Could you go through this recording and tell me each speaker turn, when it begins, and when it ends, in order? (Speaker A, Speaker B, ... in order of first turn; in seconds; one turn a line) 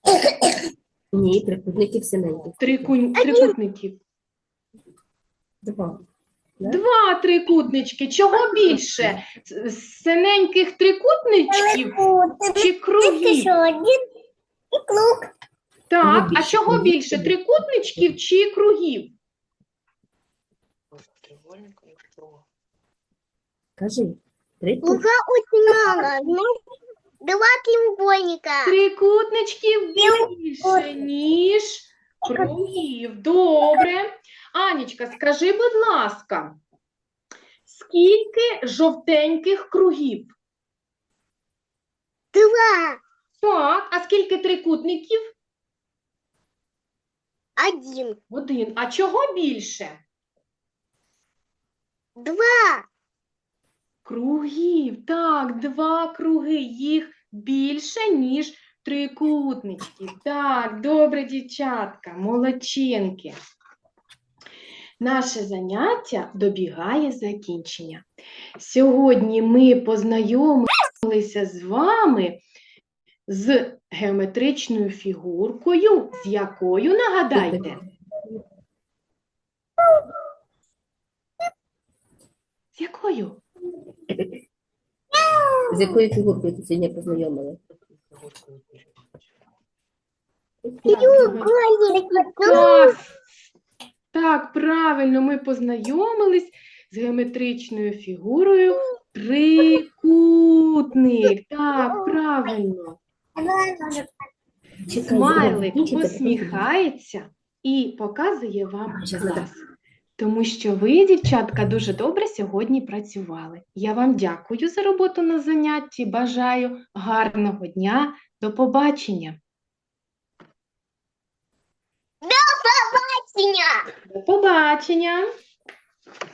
Speaker A: 1.1-2.9
Speaker B: 2.6-4.0
Speaker C: 3.2-3.5
Speaker A: 5.6-6.0
Speaker A: 6.6-6.8
Speaker B: 6.6-12.0
Speaker A: 8.9-9.2
Speaker D: 11.5-14.0
Speaker B: 12.5-13.6
Speaker D: 14.7-15.3
Speaker B: 15.9-19.1
Speaker A: 16.0-17.4
Speaker E: 20.9-22.4
Speaker A: 23.8-25.0
Speaker C: 24.8-26.5
Speaker C: 27.2-28.7
Speaker B: 28.6-36.6
Speaker B: 37.6-40.3
Speaker C: 42.3-43.0
Speaker B: 43.4-45.3
Speaker C: 47.6-48.2
Speaker B: 48.3-50.0
Speaker C: 52.2-52.9
Speaker B: 54.0-63.4
Speaker B: 65.0-68.0
Speaker B: 68.6-72.4
Speaker B: 73.3-77.8
Speaker A: 77.3-78.4
Speaker B: 82.7-83.4
Speaker A: 84.1-84.4
Speaker A: 85.7-87.6
Speaker E: 88.1-88.9
Speaker A: 90.6-91.4
Speaker B: 90.9-91.5
Speaker C: 90.9-92.9
Speaker D: 92.0-92.6
Speaker B: 92.5-93.0
Speaker B: 94.1-103.0
Speaker D: 103.3-104.1
Speaker A: 104.8-106.7
Speaker B: 105.1-109.6
Speaker A: 108.9-109.5
Speaker B: 110.2-119.4
Speaker C: 122.2-123.8
Speaker B: 124.1-125.2